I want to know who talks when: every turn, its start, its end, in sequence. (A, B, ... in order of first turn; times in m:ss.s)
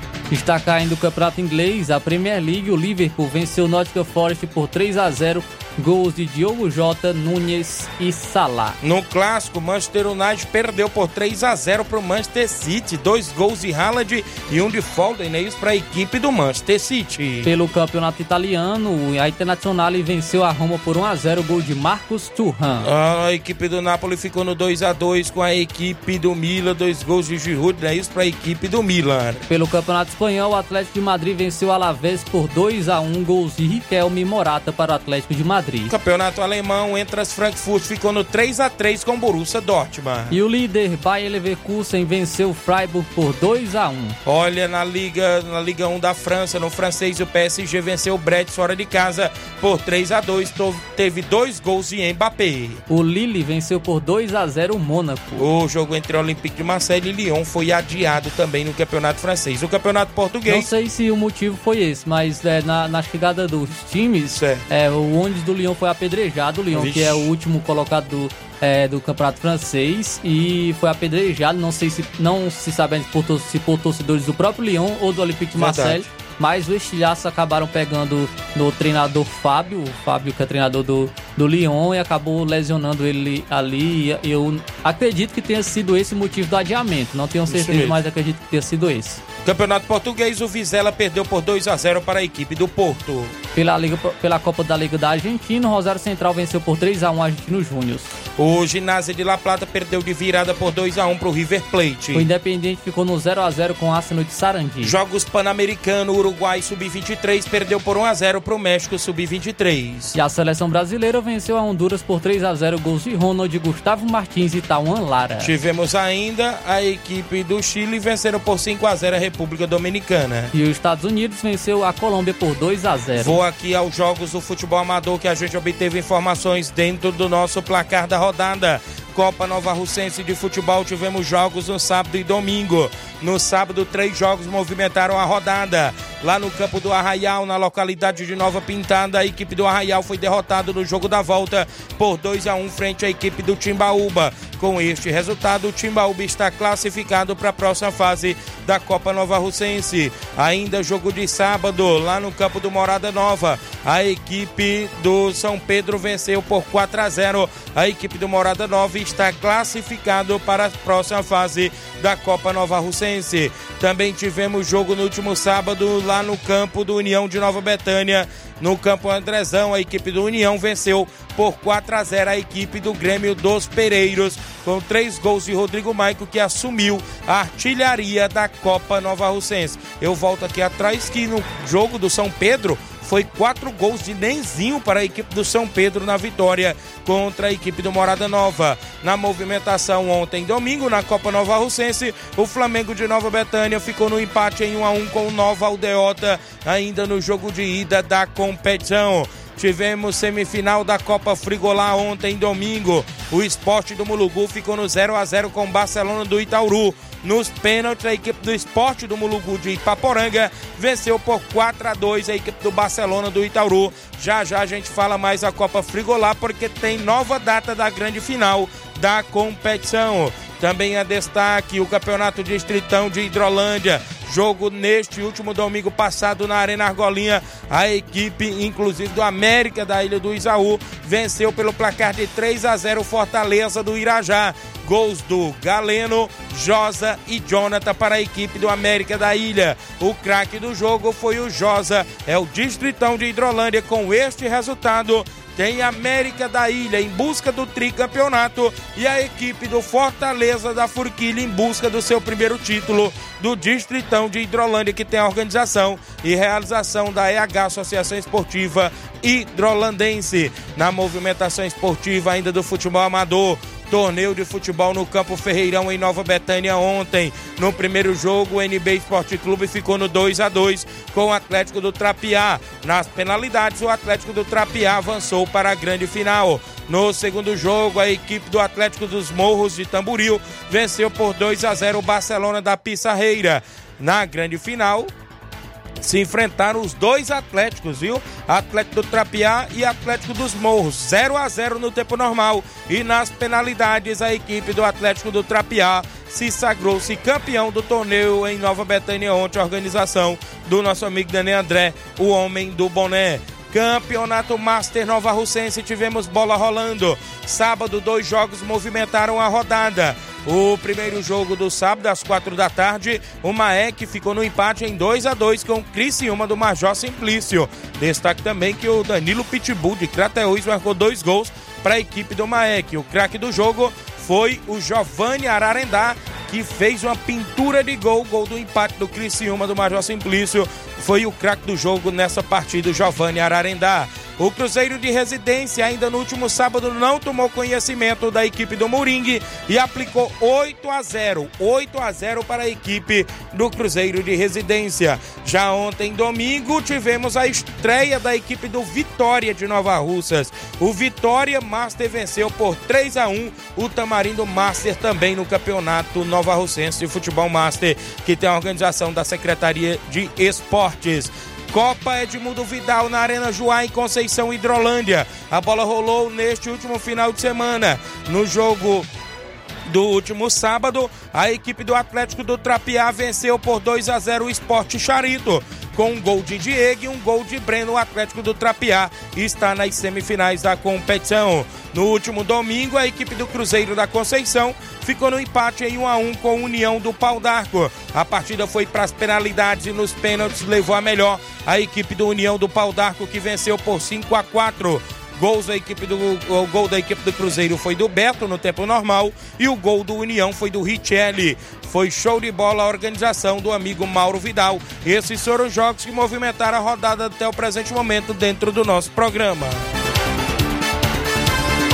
0:00.3-0:08.8 A
0:08.8-0:17.5 B
0:17.4-0:22.9 A
0:22.8-0:29.4 B
0:29.5-0:35.9 A
0:35.9-0:40.3 B
0:40.3-0:44.2 A
0:44.2-0:52.8 B
0:52.9-0:55.5 A
0:55.4-1:00.7 B
1:00.5-1:29.2 A
1:04.3-1:04.6 B
1:06.7-1:07.3 B
1:15.6-1:16.1 B
1:27.5-1:28.0 B
1:29.4-1:33.3 B
1:33.5-1:38.1 A
1:38.4-1:42.3 B
1:42.1-1:45.0 A
1:44.8-1:50.2 B
1:50.1-1:55.5 A
1:55.4-2:00.5 B
2:00.5-2:03.4 A
2:03.1-4:45.1 B
4:46.0-6:09.1 B
6:09.9-6:49.9 B